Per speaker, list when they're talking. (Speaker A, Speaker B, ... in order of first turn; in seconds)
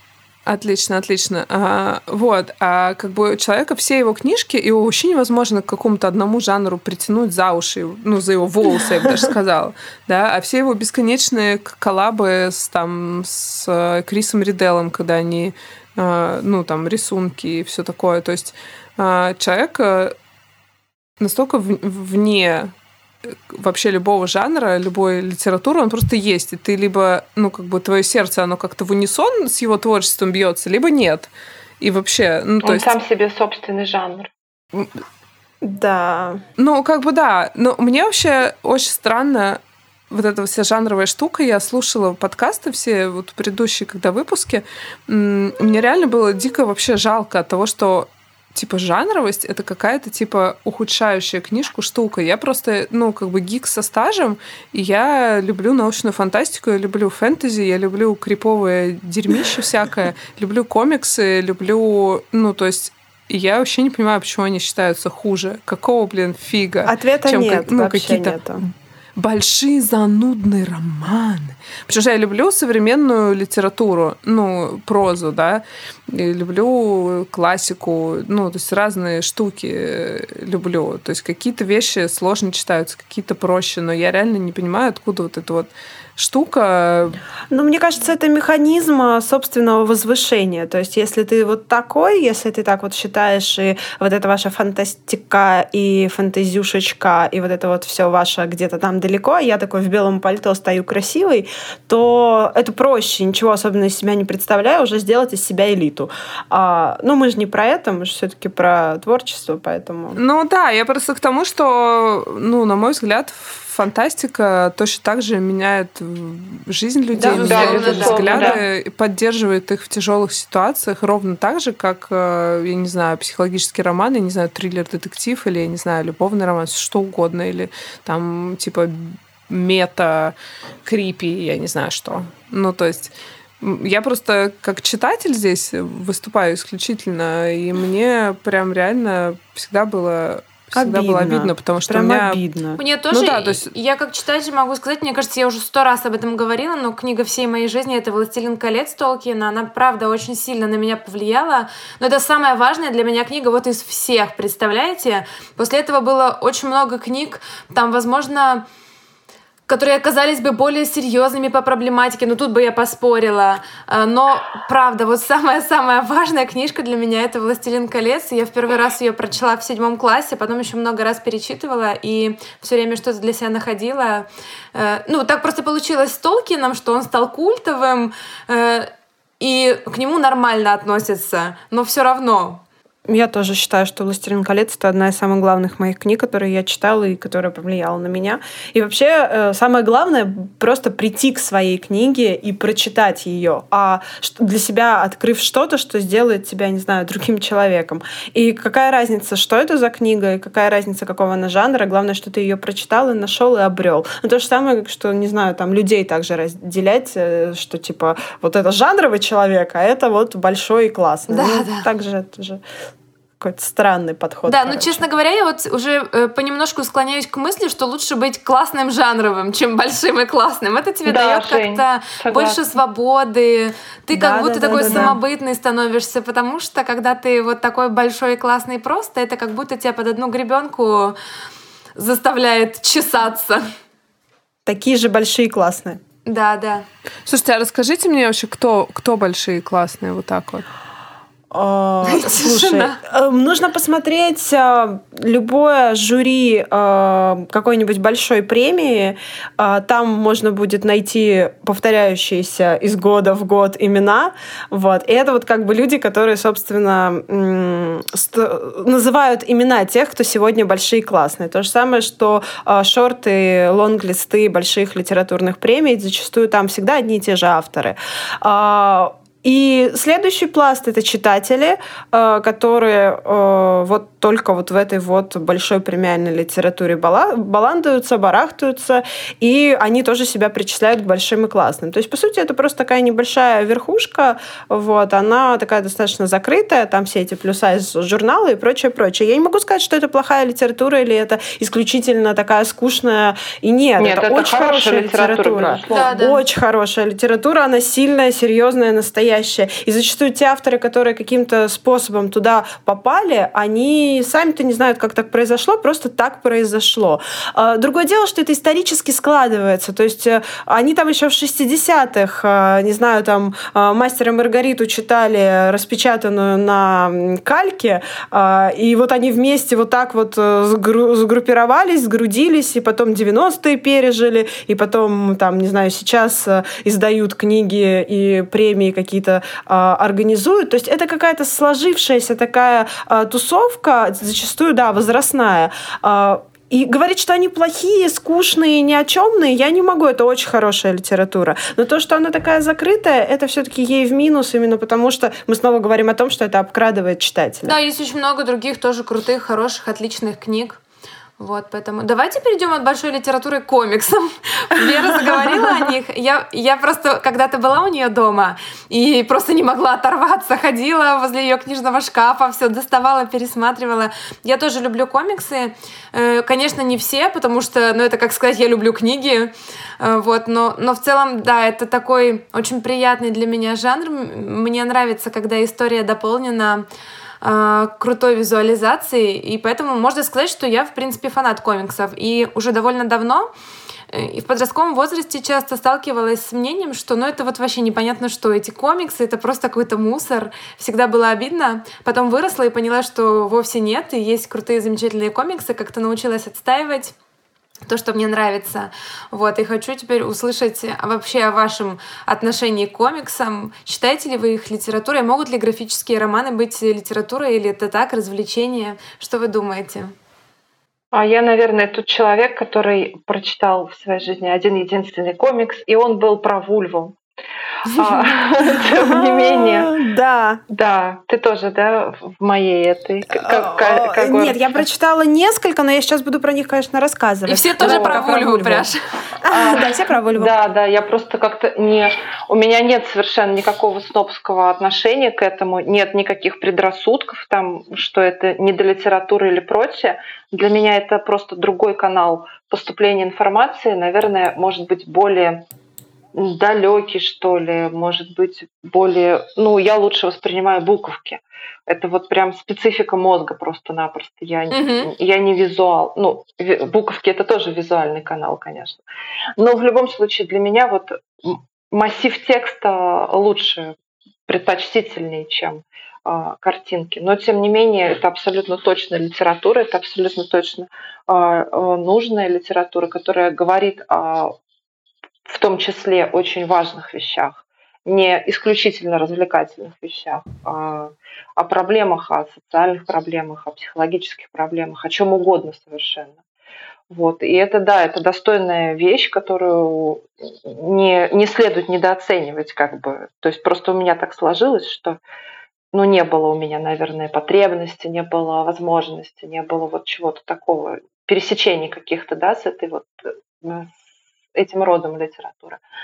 Speaker A: 0.5-20.2, 21.2-22.7, 23.2-33.0, 36.6-68.4, 69.2-87.2, 110.1-142.4, 143.1-143.7, 237.3-240.6
Speaker B: 32.6-34.3, 117.4-118.6, 221.1-222.6, 224.8-225.1, 294.0-296.1, 411.1-417.2, 417.8-419.9, 420.7-424.9, 427.8-428.3, 429.5-445.6, 446.4-459.0, 459.6-463.9, 464.5-474.6, 475.5-486.4, 487.1-495.2, 495.9-504.0, 504.5-505.8
Speaker C: 35.6-36.4, 66.9-68.6, 87.5-110.2, 117.2-117.5, 140.8-142.8, 183.1-212.6, 213.4-215.0, 224.1-225.2, 234.7-236.0, 241.5-347.8, 418.9-420.6, 423.3-428.9, 429.4-430.5
Speaker D: 117.2-118.6, 142.8-158.6, 159.7-182.6, 211.3-211.9, 214.5-231.2, 232.0-233.7, 236.3-236.9, 242.1-243.0, 295.9-296.4, 347.6-350.8, 351.4-376.9, 377.4-383.5, 384.1-397.1, 397.9-410.1, 427.5-429.0, 454.7-455.1